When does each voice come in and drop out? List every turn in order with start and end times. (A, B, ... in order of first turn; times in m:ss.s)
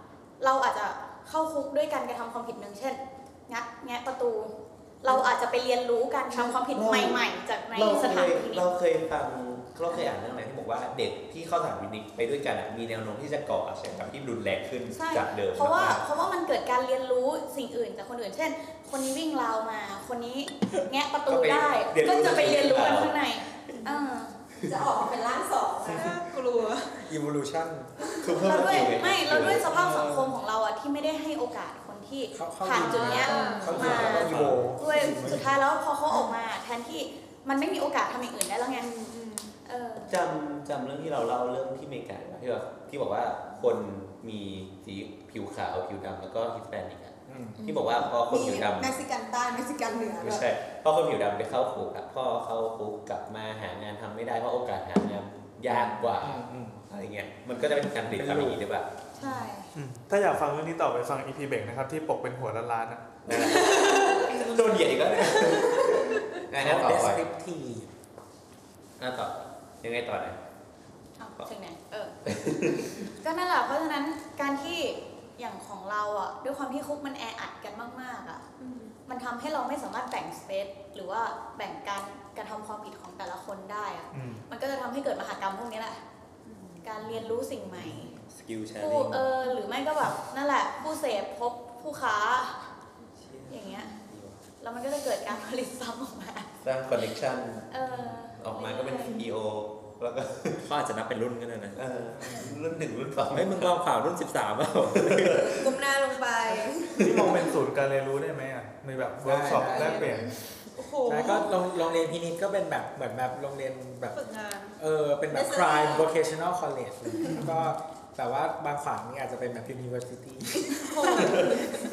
0:00.4-0:08.7 A
0:06.3-0:16.0 B
0:14.9-0:24.3 A
0:21.3-0:23.2 B
0:24.6-0:26.2 C
0:25.9-0:27.0 D
0:27.0-0:27.9 E
0:28.2-0:29.8 B
0:28.4-0:38.9 A
0:29.7-0:30.3 E
0:32.3-0:35.5 E
0:32.8-0:33.8 D
0:33.7-0:34.6 B
0:34.3-0:34.6 F
0:36.1-0:36.3 D
0:38.7-0:39.5 D
0:39.6-0:40.2 A
0:40.1-0:49.0 B
0:47.3-0:47.6 E
0:48.2-0:50.5 C
0:50.2-0:58.9 B
0:55.7-0:56.8 E
0:58.1-0:58.6 E
0:59.2-0:59.7 A
0:59.8-1:03.0 G
1:03.2-1:07.3 B
1:03.4-1:04.4 D
1:06.5-1:07.9 E
1:09.0-1:10.4 B
1:11.2-1:12.2 A
1:12.3-1:12.9 B
1:13.2-1:18.4 A
1:19.1-1:26.0 A
1:24.1-1:24.4 G
1:26.5-1:26.9 C
1:26.8-1:28.2 A
1:27.1-1:29.4 F
1:28.8-1:32.7 A
1:33.2-1:34.4 F
1:33.5-1:34.0 A
1:34.6-1:36.5 A
1:36.6-1:37.7 B
1:37.7-1:39.2 A
1:38.4-1:40.7 B
1:40.7-1:42.4 F
1:41.8-1:43.8 B
1:43.3-1:45.4 F
1:45.0-1:45.7 B
1:45.4-1:47.1 C
1:47.0-1:47.5 B
1:47.0-1:50.3 G
1:49.2-1:50.3 E
1:50.7-1:51.7 D
1:51.1-1:54.2 E
1:54.1-1:54.8 D
1:54.8-2:01.6 E
1:55.3-1:56.1 C
1:57.4-1:57.6 G
2:00.8-2:01.6 D
2:01.2-2:01.5 B